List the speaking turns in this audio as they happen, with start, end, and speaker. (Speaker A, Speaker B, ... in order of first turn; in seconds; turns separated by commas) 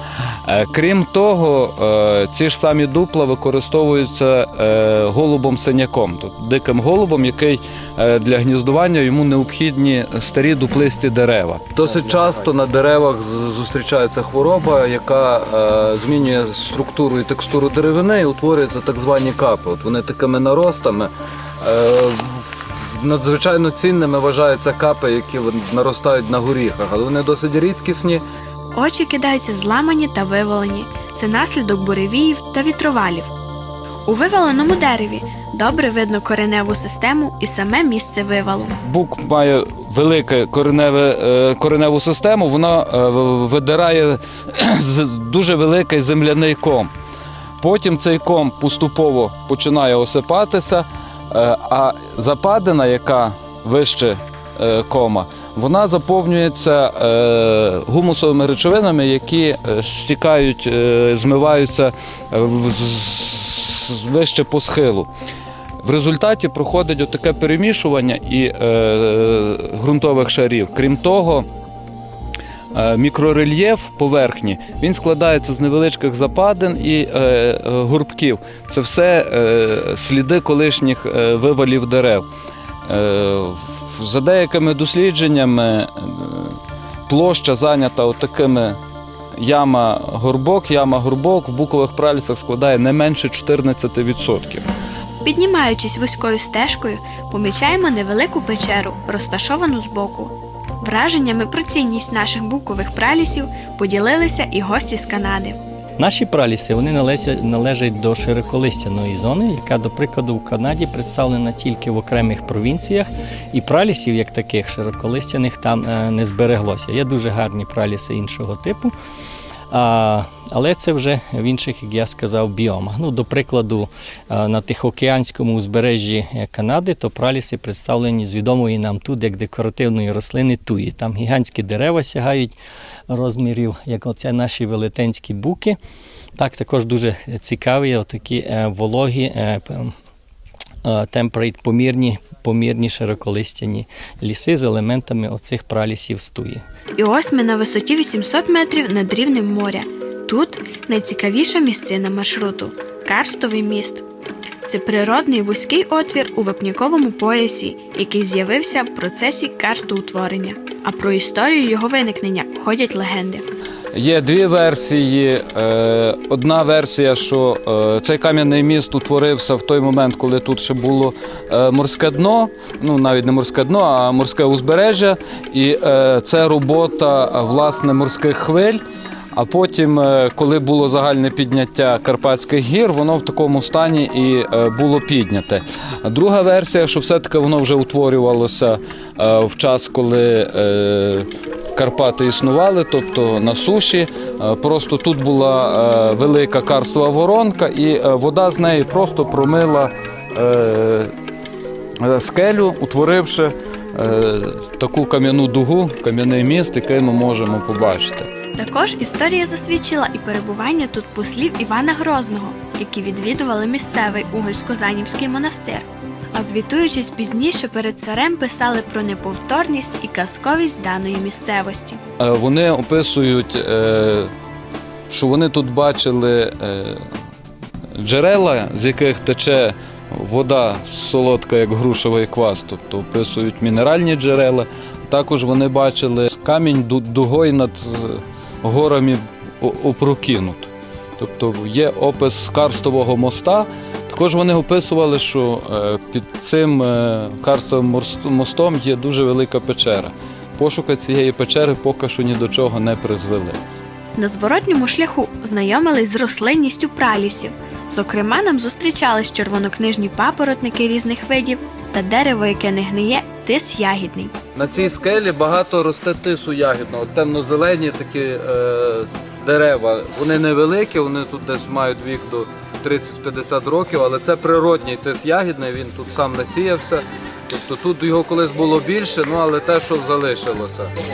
Speaker A: 0.5-28.2, Speaker B: 28.7-33.3, Speaker B: 34.1-38.8, Speaker A: 38.8-46.9, Speaker A: 47.6-65.1, Speaker A: 65.8-71.5, Speaker A: 72.7-82.3, Speaker A: 82.9-88.8, Speaker A: 89.4-94.7, Speaker B: 95.2-105.6, Speaker C: 106.0-118.9, Speaker C: 119.7-132.5, Speaker C: 133.1-135.8, Speaker C: 136.3-139.9, Speaker C: 140.8-146.6, Speaker B: 147.0-154.0, Speaker B: 154.6-163.4, Speaker A: 163.9-178.8, Speaker A: 179.3-201.1, Speaker A: 202.0-208.3, Speaker B: 208.5-222.0, Speaker A: 222.2-224.3, Speaker A: 225.1-227.0, Speaker A: 227.9-253.6, Speaker B: 254.2-264.3, Speaker A: 264.5-280.9